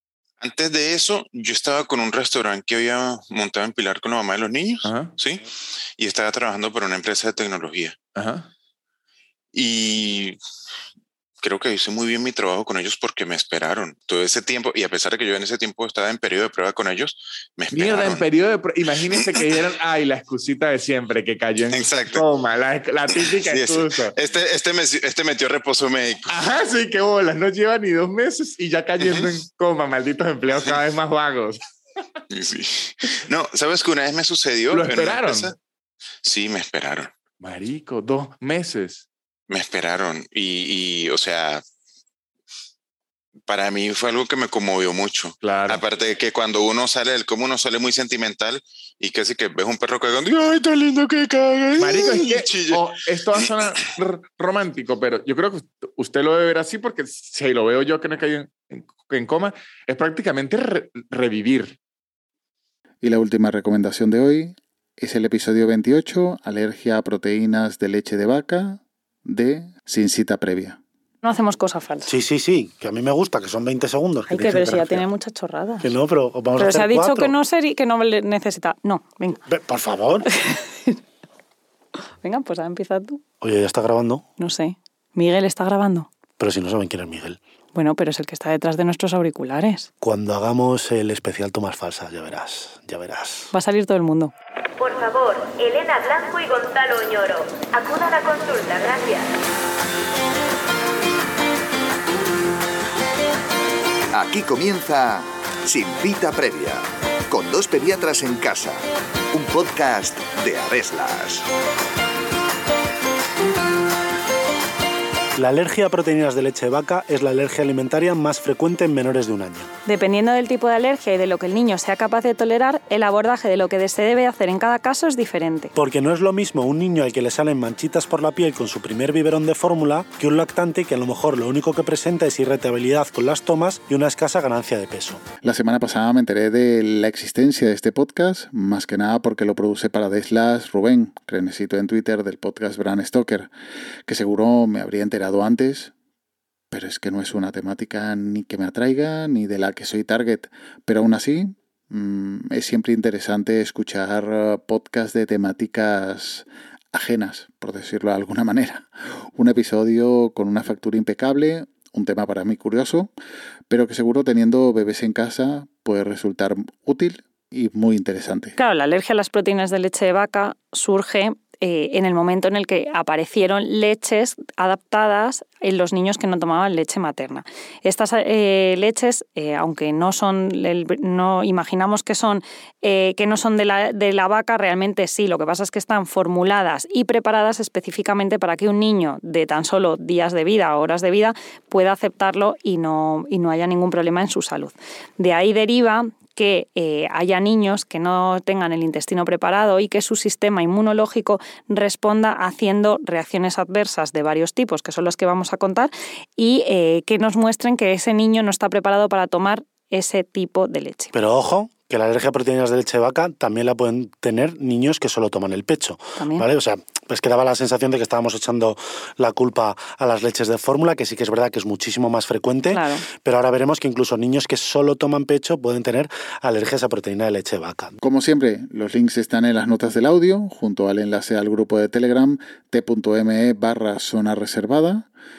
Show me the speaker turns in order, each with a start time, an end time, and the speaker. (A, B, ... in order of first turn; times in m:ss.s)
0:00.4-0:08.0 A
0:04.8-0:05.1 B
0:08.1-0:08.5 B
0:09.5-0:10.4 A
0:11.4-0:18.2 A
0:17.7-0:24.2 B
0:19.0-0:19.4 A
0:21.7-0:22.3 A
0:23.1-0:26.3 A
0:26.3-0:31.6 B
0:29.0-0:29.3 A
0:32.3-0:35.5 A
0:34.7-0:35.5 B
0:36.2-0:37.1 A
0:37.4-0:39.0 B
0:39.5-0:41.6 A
0:43.5-0:52.8 A
0:45.4-0:45.8 B
0:51.8-1:01.8 B
0:53.4-0:53.8 A
1:03.0-1:10.8 C
1:11.2-1:12.1 D
1:12.1-1:15.0 E
1:14.3-1:15.9 D
1:15.8-1:17.3 E
1:16.6-1:19.4 D
1:19.5-1:20.3 E
1:20.3-1:21.0 D
1:22.2-1:23.2 D
1:23.4-1:24.2 E
1:24.4-1:26.1 D
1:26.4-1:27.4 E
1:27.7-1:29.9 D
1:30.0-1:33.5 E
1:33.5-1:34.3 D
1:34.8-1:39.3 F
1:44.1-1:48.8 G
1:49.3-1:51.4 G
1:55.4-1:59.7 E
1:59.8-2:05.7 D
2:05.8-2:15.2 E
2:15.4-2:23.5 C
2:24.1-2:25.9 C
2:26.7-2:43.1 C
2:43.7-2:48.6 C
2:48.6-3:31.1 D
3:31.1-3:48.0 E
3:36.2-3:36.5 D
3:42.7-3:43.0 D
3:48.0-3:55.1 C